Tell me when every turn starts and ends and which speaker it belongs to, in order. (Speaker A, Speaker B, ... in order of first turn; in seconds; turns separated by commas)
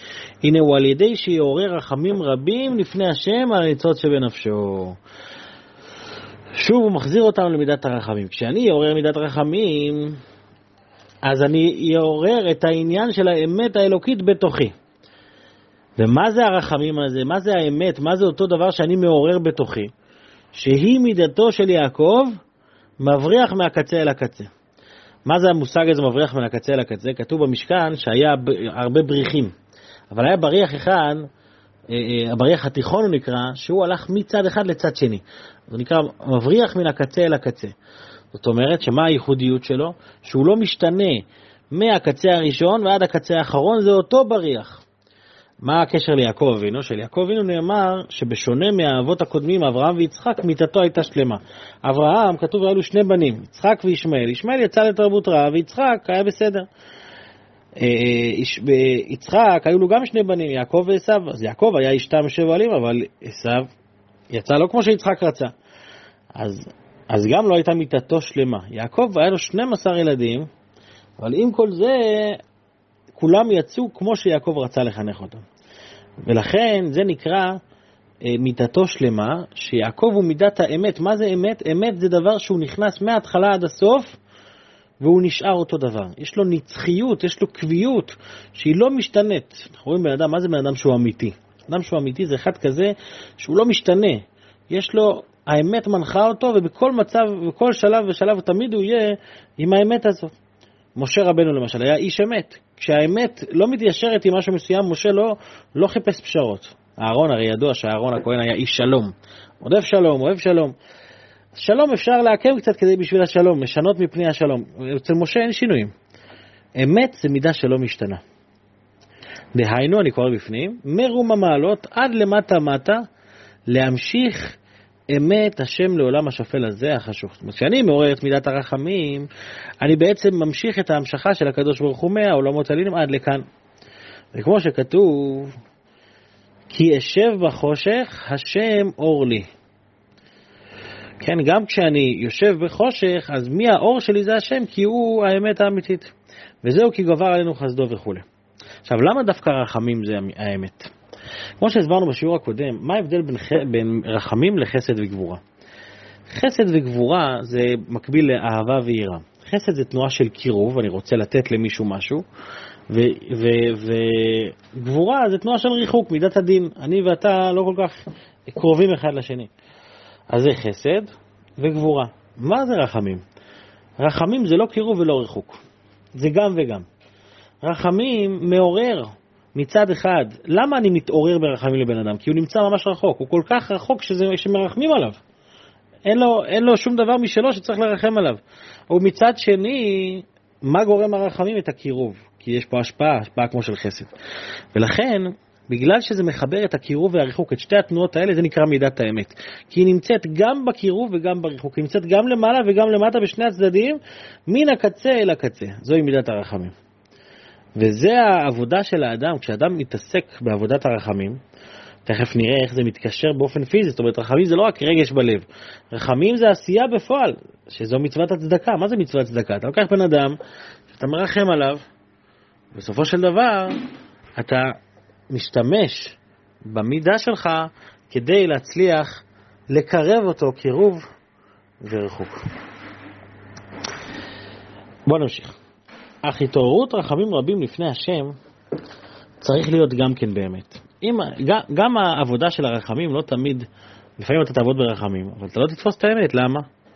Speaker A: 0.4-5.0, Speaker A: 6.6-10.2, Speaker A: 11.2-14.7, Speaker A: 16.0-19.9, Speaker A: 20.5-22.3, Speaker A: 23.0-24.5, Speaker A: 25.3-29.5, Speaker A: 30.1-31.3, Speaker A: 31.9-37.7, Speaker A: 38.3-44.8, Speaker A: 45.6-56.7, Speaker A: 57.8-63.7, Speaker A: 64.3-65.5, Speaker A: 66.3-70.5, Speaker A: 71.2-72.4, Speaker A: 73.2-75.4, Speaker A: 76.2-77.6, Speaker A: 78.2-84.2, Speaker A: 85.0-100.3, Speaker A: 101.0-110.7, Speaker A: 111.6-115.9, Speaker A: 116.8-118.2, Speaker A: 119.5-123.0, Speaker A: 123.7-124.6, Speaker A: 125.1-129.3, Speaker A: 129.8-133.4, Speaker A: 134.3-135.5, Speaker A: 136.7-139.5, Speaker A: 141.2-148.2, Speaker A: 148.8-150.9, Speaker A: 151.6-155.4, Speaker A: 156.3-162.2, Speaker A: 162.9-169.5, Speaker A: 170.3-173.2, Speaker A: 174.0-175.6, Speaker A: 176.2-176.9, Speaker A: 177.6-185.2, Speaker A: 186.1-194.1, Speaker A: 194.7-206.7, Speaker A: 207.8-211.4, Speaker A: 212.1-220.4, Speaker A: 220.9-221.8, Speaker A: 222.7-223.8, Speaker A: 224.4-224.8, Speaker A: 225.3-231.1, Speaker A: 231.8-232.4, Speaker A: 235.1-235.5, Speaker A: 236.2-238.3, Speaker A: 239.4-243.7, Speaker A: 244.2-246.7